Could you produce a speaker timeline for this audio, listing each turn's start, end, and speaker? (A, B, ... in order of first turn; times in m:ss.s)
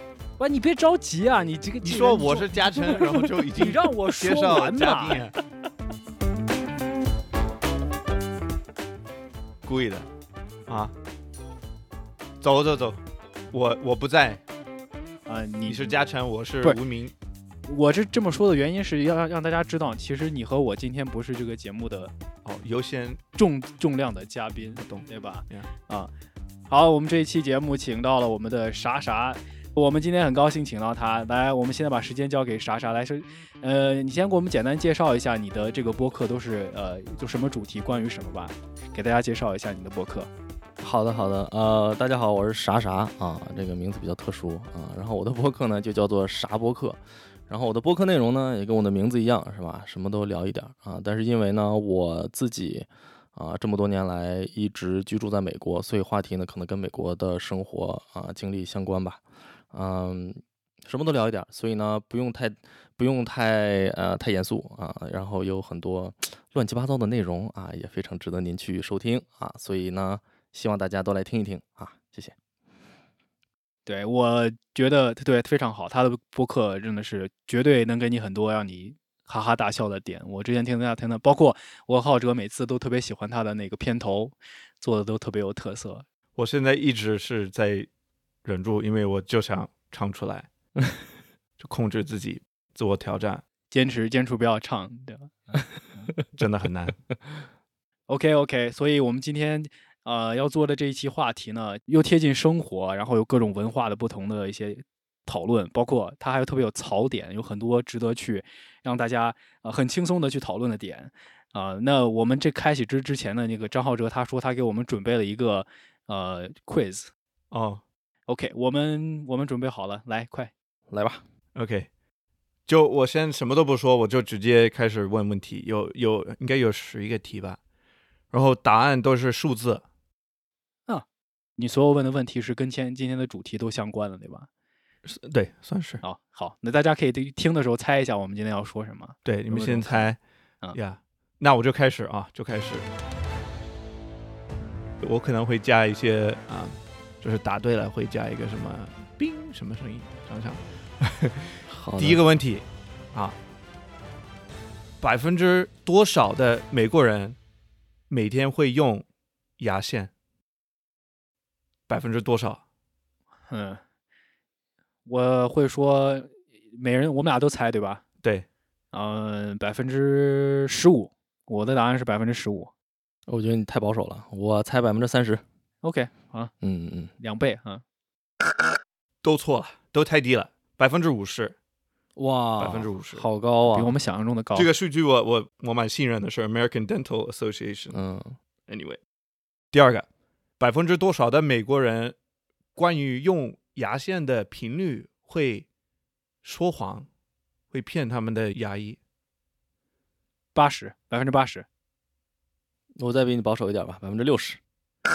0:00.4-0:05.3 A
0:01.8-0:05.4 B
0:09.6-0:10.1 B
0:10.7-0:10.9 B
0:12.4-0:13.0 B
0:13.5-0:14.4 B
0:15.3-0:16.0 A
0:15.7-0:17.1 B
0:17.7-0:22.1 A
0:22.4-0:23.2 B
0:23.3-0:26.1 A
0:24.8-0:25.7 B
0:26.7-0:40.3 A
0:40.8-1:12.4 C
1:13.9-1:26.0 A
1:26.4-1:27.9 B
1:28.4-1:30.5 B
1:31.6-1:33.4 B
1:33.7-1:36.1 A
1:36.4-1:37.0 B
1:38.1-1:57.1 A
1:57.5-1:57.8 B
1:58.3-2:00.5 A
2:00.9-2:01.2 C
2:01.6-2:01.9 B
2:02.7-2:07.6 B
2:08.3-2:09.8 B
2:11.6-2:14.5 A
2:15.0-2:16.0 B
2:16.0-2:20.1 A
2:19.2-2:20.2 B
2:20.7-2:22.9 B
2:25.0-2:33.4 B
2:31.7-2:32.2 C
2:35.0-2:37.4 B
2:38.1-2:39.0 B
2:39.6-2:40.1 B
2:41.9-2:42.6 B
2:43.5-2:43.8 A
2:45.1-2:48.0 A
2:48.9-2:52.7 A
2:53.3-2:55.4 C
2:55.8-2:56.5 A
2:56.6-2:57.1 C
2:57.2-2:57.8 A
2:59.2-3:01.6 B
3:02.2-3:03.9 C
3:02.6-3:03.3 B
3:03.7-3:04.7 A
3:04.5-3:08.0 B
3:07.9-3:08.4 C
3:08.7-3:09.0 B
3:09.7-3:10.1 B
3:10.6-3:12.2 B
3:12.8-3:15.7 B
3:16.4-3:17.1 B
3:17.7-3:19.0 B
3:20.6-3:21.7 A
3:23.0-3:24.6 C